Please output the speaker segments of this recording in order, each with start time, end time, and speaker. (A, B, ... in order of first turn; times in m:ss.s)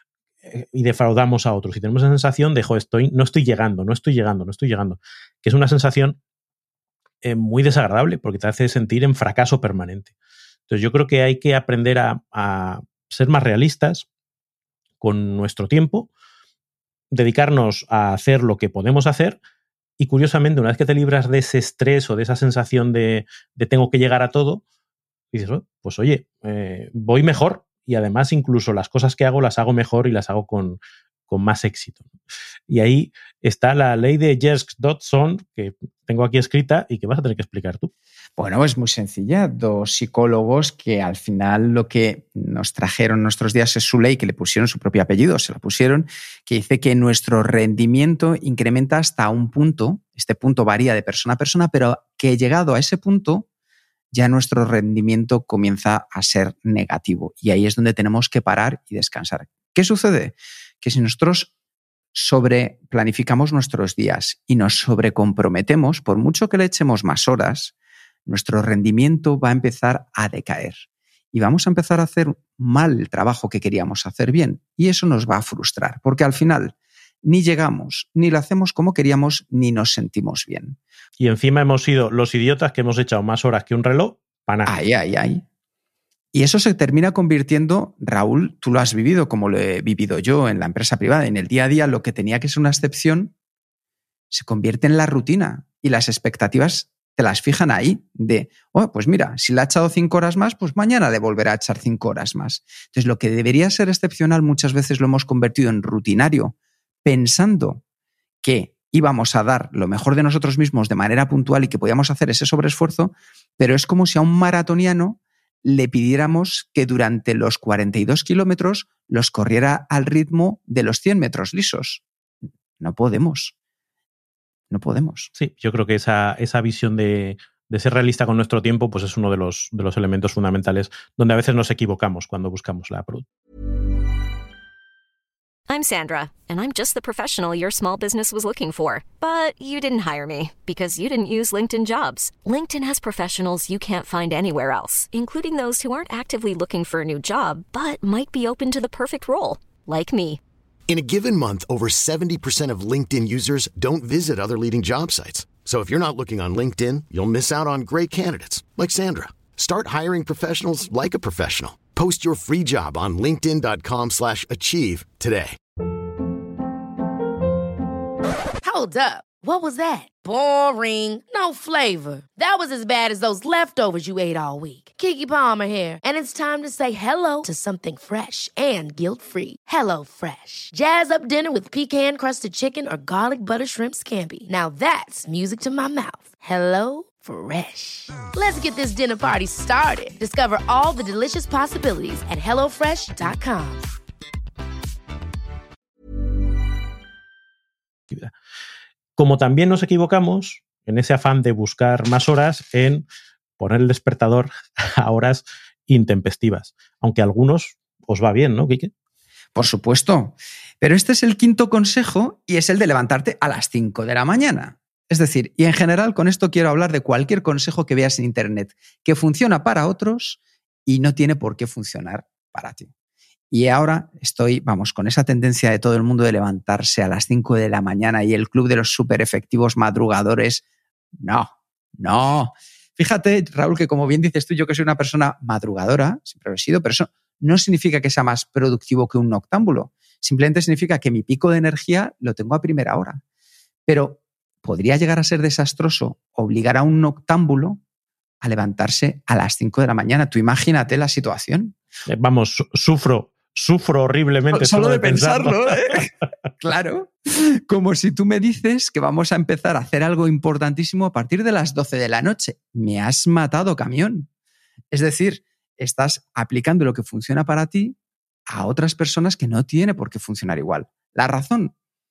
0:00.5-0:06.2 A
0:07.2-0:10.1 A
0:10.7-0:14.1 A
0:15.0-0:16.1 A
0:17.1-0:19.4 A
0:20.0-0:24.6 A
0:25.3-0:32.1 A
0:32.7-0:37.9 A
0:38.4-0:53.5 B
0:54.1-1:01.5 B
1:02.1-1:07.7 B
1:08.3-1:20.8 B
1:21.2-1:24.8 A
1:24.7-1:25.4 B
1:26.3-1:33.3 B
1:34.3-1:47.8 B
1:48.4-2:02.0 B
2:02.8-2:03.5 B
2:04.7-2:05.3 B
2:05.4-2:13.3 A
2:15.7-2:30.4 C
2:30.9-2:45.6 D
2:48.6-3:13.9 E
3:19.2-3:23.0 A
3:23.6-3:28.9 A
3:29.6-3:42.9 B
3:43.5-3:50.6 B
3:51.2-4:03.2 B
4:03.9-4:07.8 B
4:08.4-4:11.8 B
4:12.1-4:16.0 A
4:14.5-4:24.3 B
4:24.9-4:28.0 B
4:28.5-4:31.7 B